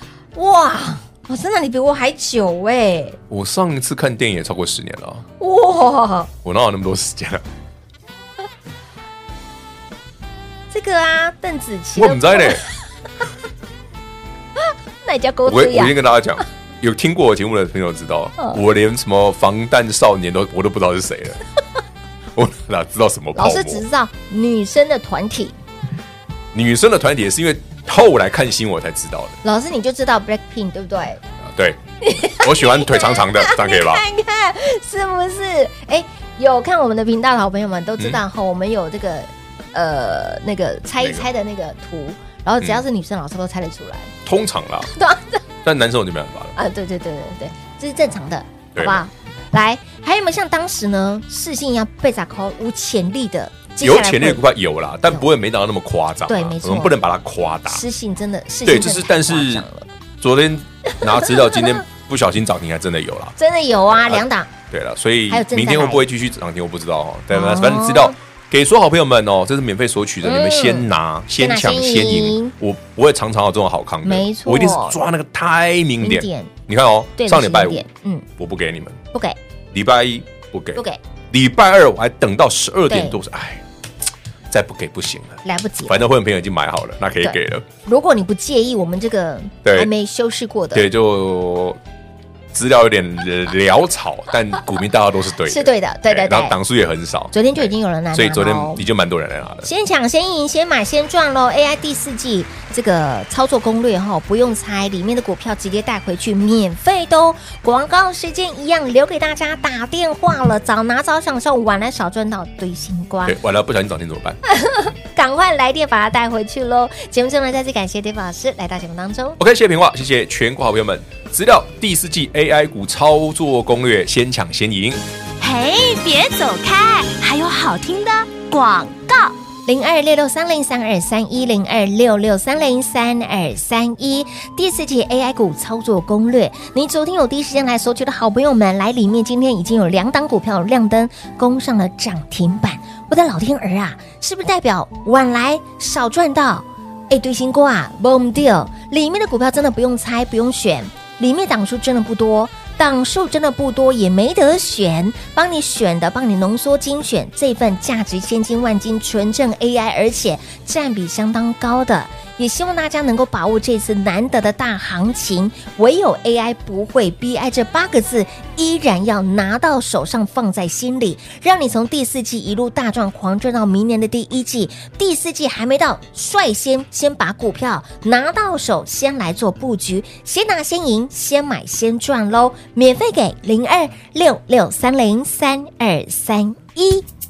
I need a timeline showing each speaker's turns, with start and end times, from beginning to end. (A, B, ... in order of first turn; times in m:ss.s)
0:00.4-0:03.2 A
0:03.3-0:05.3 B
0:05.4-0:06.3 A
0:06.4-0:07.4 B
0:10.7-0:12.7 A
0:12.0-0:12.6 B
0:14.6-0:15.9 A
0:15.5-0:21.4 B
0:22.4-0:23.8 B
0:23.4-0:25.6 A
0:26.5-0:29.4 B
0:29.4-0:31.2 A
0:31.4-0:34.0 B
0:32.0-0:44.1 A
0:41.0-0:41.3 B
0:44.2-0:44.9 B
0:44.8-0:45.4 A
0:45.6-0:46.6 B
0:46.6-0:54.4 A
0:48.8-0:49.0 B
0:53.8-0:57.8 B
0:56.3-0:57.0 A
0:57.7-0:59.9 A
0:58.6-0:59.6 B
1:00.2-1:03.4 B
1:01.0-1:01.8 A
1:03.4-1:04.5 A
1:03.9-1:17.8 B
1:05.3-1:06.1 A
1:07.3-1:08.2 A
1:10.2-1:12.5 A
1:14.0-1:15.0 A
1:16.0-1:16.5 A
1:17.2-1:18.3 A
1:18.4-1:19.0 B
1:19.7-1:23.6 B
1:20.8-1:21.0 A
1:22.9-1:23.2 A
1:24.5-1:27.7 B
1:25.4-1:26.0 A
1:27.2-1:30.9 A
1:29.6-1:29.9 B
1:30.7-1:31.8 B
1:32.5-1:39.7 B
1:35.4-1:36.6 A
1:37.3-1:38.8 A
1:39.6-1:53.4 A
1:53.2-1:54.4 B
1:54.5-1:59.4 A
1:59.4-2:05.0 B
2:05.4-2:08.6 C
2:09.7-3:07.1 A